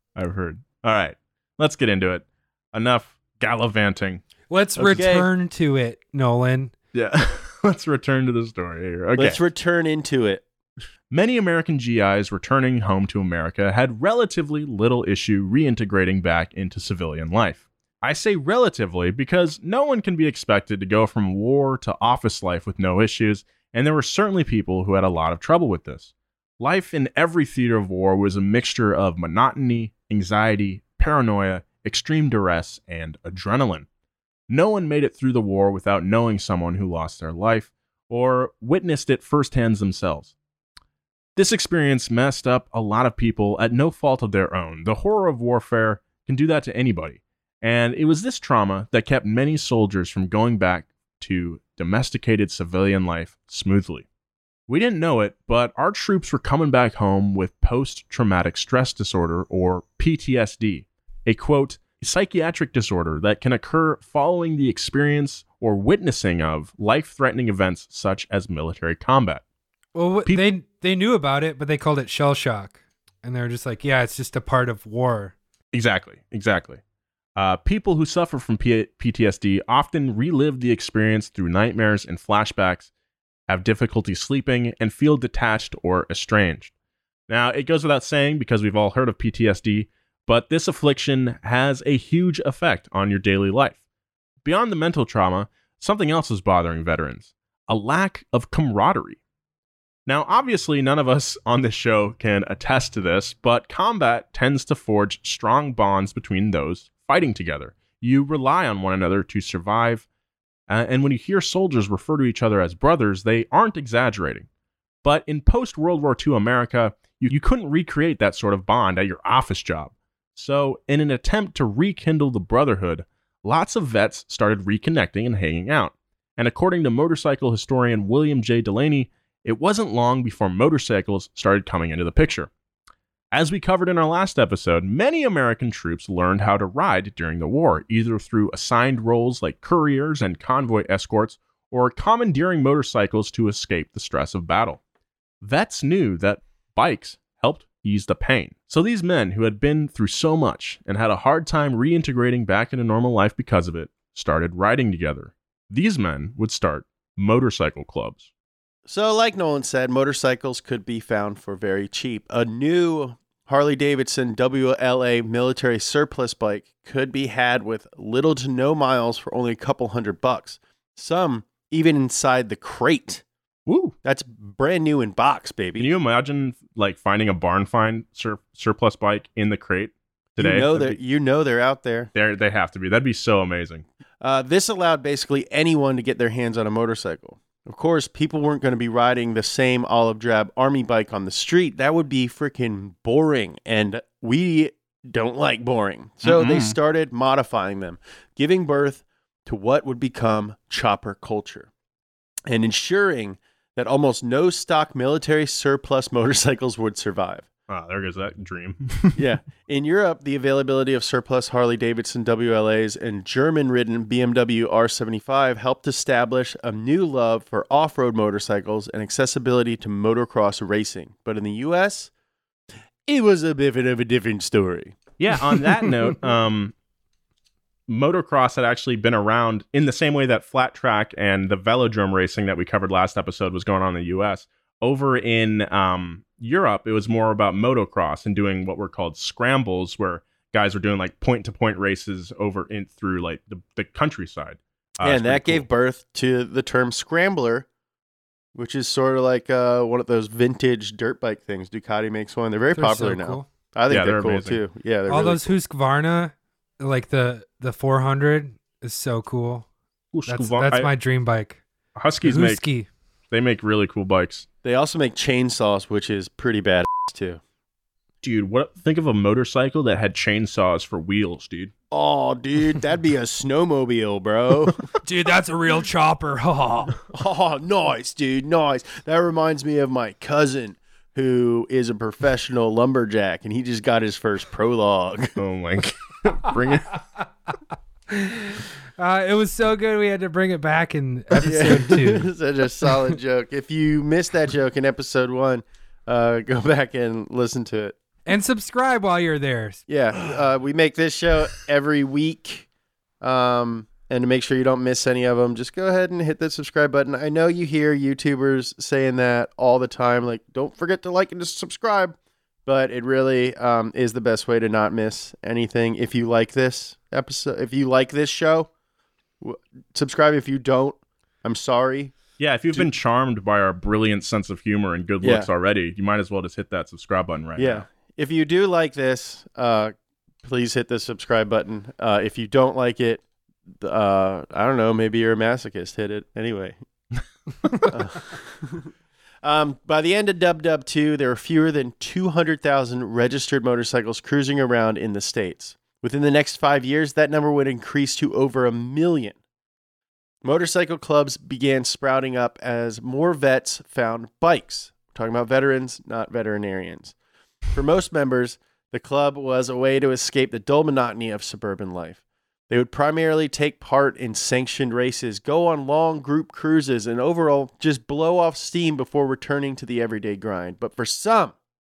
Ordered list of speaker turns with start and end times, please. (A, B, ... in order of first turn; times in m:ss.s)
0:00.2-0:04.2 A
0:04.5-0:06.7 B
0:04.8-0:05.3 C
0:06.9-0:09.4 A
0:09.2-0:10.4 C
0:11.1-0:33.9 A
0:34.5-0:40.3 A
0:41.4-0:54.1 A
0:54.7-1:09.4 A
1:10.0-1:15.4 B
1:15.7-1:16.8 A
1:17.4-1:22.9 A
1:23.5-1:26.7 A
1:27.3-1:33.8 A
1:34.4-1:39.2 A
1:40.1-1:50.1 A
1:50.7-1:54.5 A
1:55.0-2:12.5 A
2:13.3-2:24.8 A
2:25.4-2:38.3 A
2:38.9-2:53.2 C
2:53.7-2:54.0 A
2:54.0-2:55.9 C
2:55.8-3:01.0 A
3:00.4-3:02.1 C
3:02.1-3:03.9 A
3:04.2-3:21.7 C
3:16.2-3:16.8 A
3:22.5-3:27.5 C
3:27.7-3:29.2 A
3:29.2-3:42.1 C
3:43.1-3:45.0 C
3:45.2-3:46.7 A
3:47.9-4:05.7 A
4:05.0-4:07.7 C
4:08.5-4:15.5 C
4:12.8-4:13.5 B
4:13.9-4:14.6 A
4:15.1-4:19.7 B
4:20.1-4:20.9 A
4:20.3-4:21.6 B
4:22.0-4:22.6 A
4:22.2-4:22.9 B
4:23.3-4:24.5 A
4:24.6-4:27.4 C
4:28.2-4:31.7 A
4:31.9-4:34.8 C
4:35.0-4:37.0 B
4:37.1-4:45.4 C
4:45.4-4:47.0 A
4:48.1-4:52.3 B
4:51.4-4:58.0 C
4:58.3-4:59.8 B
4:59.9-5:02.7 C
5:03.2-5:18.7 C
5:19.4-5:22.2 C
5:22.4-5:27.8 A
5:25.2-5:25.5 C
5:27.6-5:29.9 C
5:30.4-5:33.2 C
5:33.8-5:36.8 C
5:37.8-5:38.9 C
5:39.4-5:49.4 C
5:50.4-5:57.2 C
5:57.7-6:11.6 C